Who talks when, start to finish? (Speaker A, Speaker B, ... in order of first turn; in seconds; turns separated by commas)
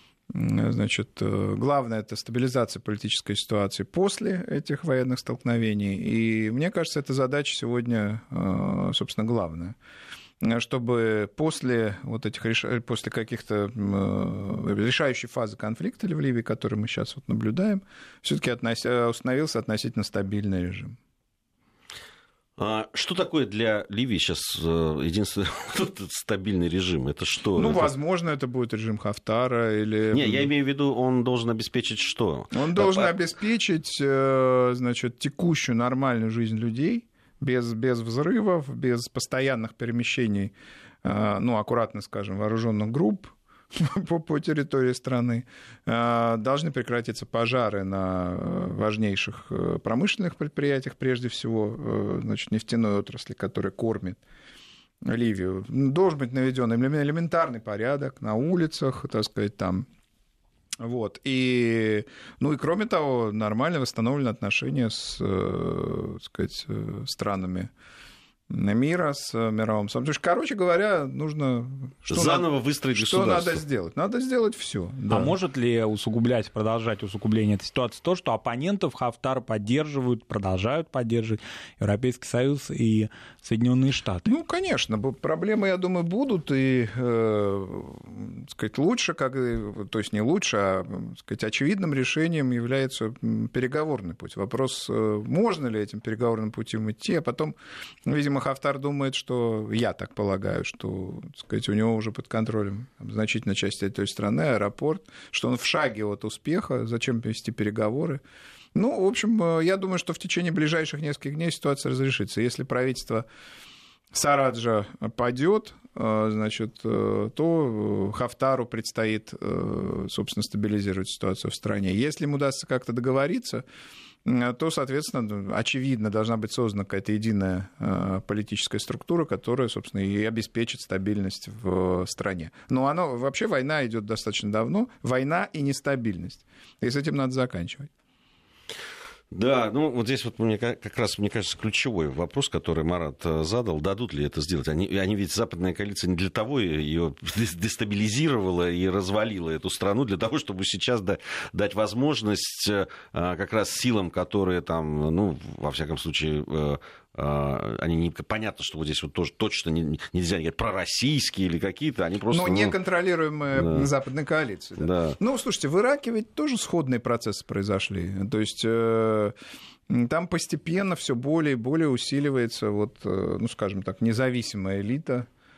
Speaker A: 0.3-9.8, Speaker A: 10.4-21.0, Speaker B: 22.6-27.9, Speaker A: 27.6-30.5, Speaker B: 30.1-33.1, Speaker A: 32.5-40.5, Speaker A: 41.0-54.2, Speaker A: 55.0-59.9, Speaker A: 60.8-67.7, Speaker A: 68.5-75.3, Speaker B: 72.1-73.6, Speaker C: 75.1-84.3, Speaker A: 84.3-108.2, Speaker A: 108.8-113.2, Speaker A: 114.1-123.6, Speaker A: 124.2-137.9, Speaker B: 139.3-162.8, Speaker A: 162.3-169.3, Speaker B: 163.5-163.9, Speaker B: 164.8-165.2, Speaker A: 169.9-175.3